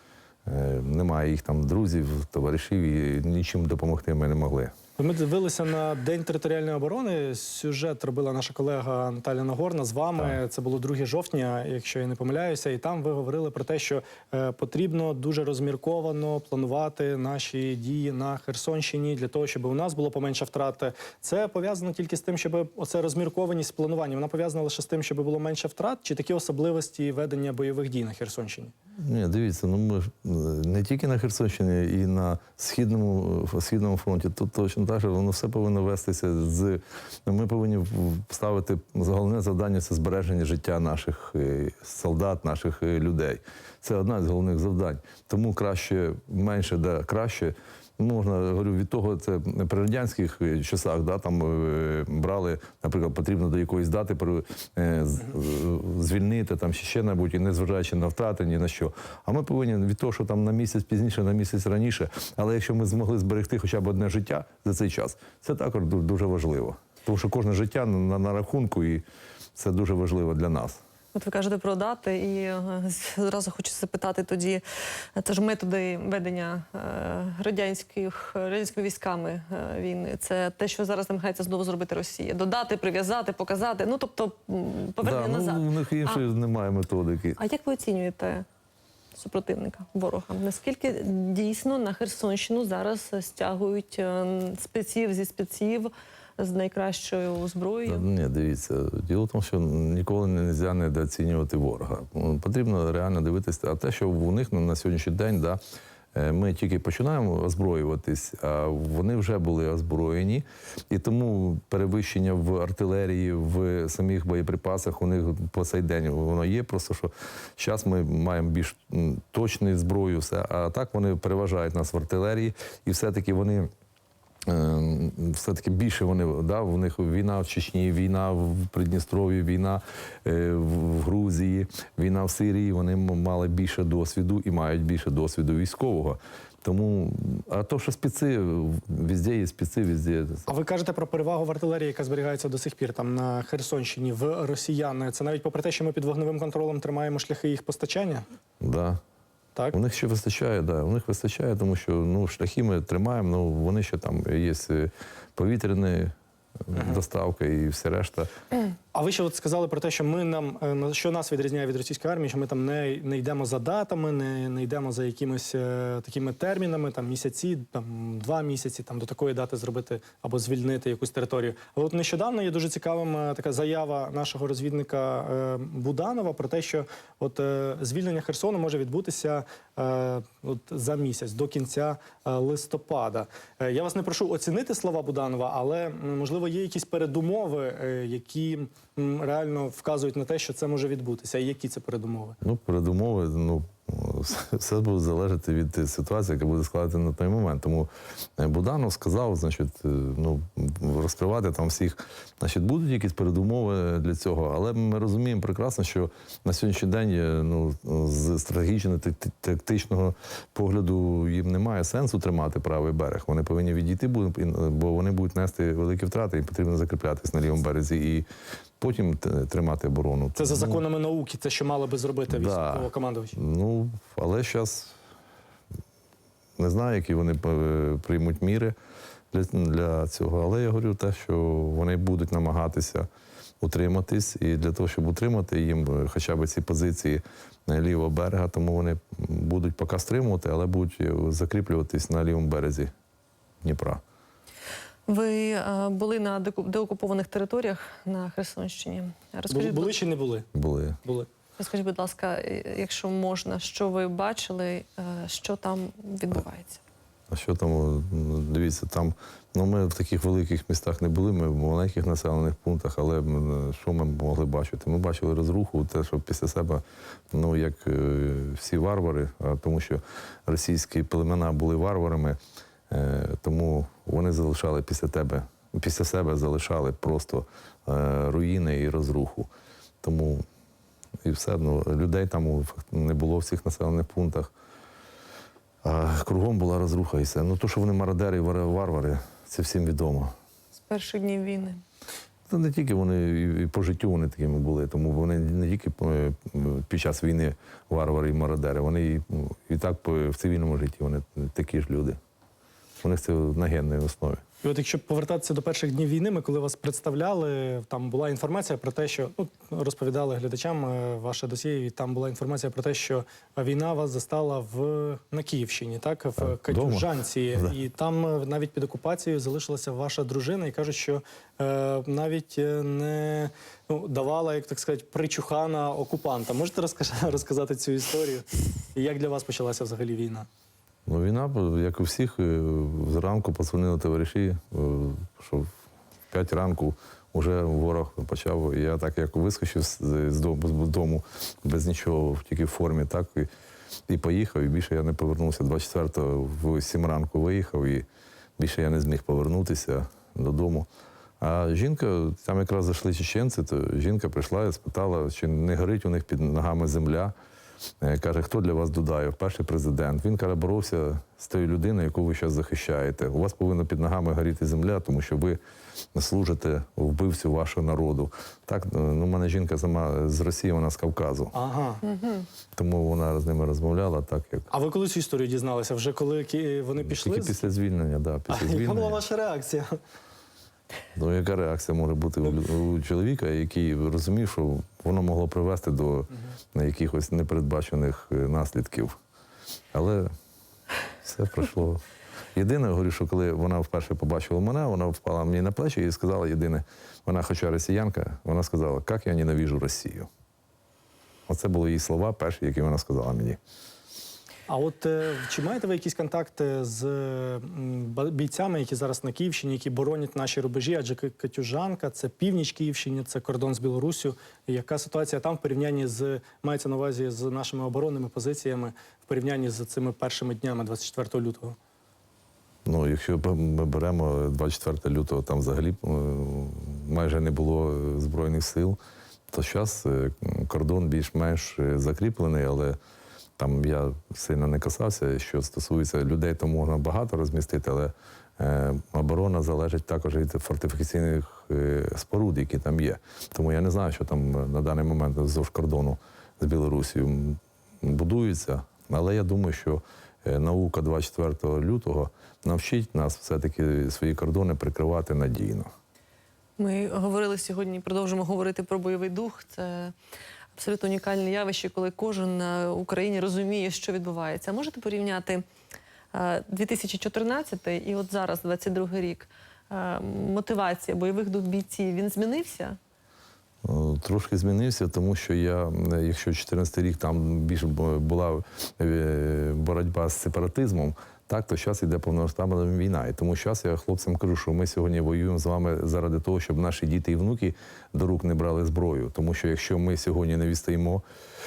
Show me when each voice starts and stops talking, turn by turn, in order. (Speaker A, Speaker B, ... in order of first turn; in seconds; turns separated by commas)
Speaker A: 0.5-4.7, Speaker B: 5.0-28.7, Speaker A: 29.0-69.0, Speaker A: 69.6-70.8, Speaker C: 71.1-74.6, Speaker C: 75.2-86.2, Speaker A: 85.0-87.4, Speaker C: 87.4-88.4, Speaker C: 89.1-98.0, Speaker A: 97.8-105.6, Speaker A: 106.1-123.7, Speaker A: 124.5-140.5, Speaker B: 140.5-148.2, Speaker A: 148.6-149.0, Speaker A: 149.7-156.1, Speaker A: 156.7-158.3, Speaker B: 156.7-157.0, Speaker B: 158.9-192.4, Speaker A: 192.4-218.2, Speaker A: 218.8-220.8, Speaker B: 220.3-223.3, Speaker A: 222.3-224.9, Speaker A: 226.6-228.7, Speaker A: 229.3-233.1, Speaker A: 233.6-242.9, Speaker A: 243.6-244.0, Speaker C: 245.1-249.9, Speaker B: 249.5-250.5, Speaker A: 250.5-251.0, Speaker C: 251.6-256.8, Speaker A: 257.3-272.4, Speaker A: 272.9-279.5, Speaker A: 280.0-280.4, Speaker A: 281.2-284.5, Speaker A: 285.8-290.3, Speaker C: 290.9-291.8, Speaker A: 292.5-302.2, Speaker A: 303.0-304.4, Speaker B: 304.6-330.5, Speaker A: 316.4-317.7, Speaker A: 331.1-335.7, Speaker A: 336.3-343.5, Speaker A: 344.1-348.1, Speaker A: 348.6-350.9, Speaker A: 351.4-357.3, Speaker A: 358.0-365.6, Speaker A: 366.1-371.5, Speaker B: 371.5-372.0, Speaker C: 372.0-372.5, Speaker A: 372.7-374.7, Speaker B: 374.7-377.6, Speaker A: 377.0-379.2, Speaker B: 378.5-380.0, Speaker A: 381.1-389.1, Speaker A: 389.9-390.3, Speaker A: 391.2-392.0, Speaker A: 392.5-400.3, Speaker A: 401.5-403.6, Speaker B: 404.7-421.8, Speaker A: 422.9-429.0, Speaker A: 429.5-433.0, Speaker A: 433.6-455.9, Speaker C: 456.8-460.1, Speaker C: 460.8-465.6, Speaker C: 466.3-473.0, Speaker A: 473.8-491.2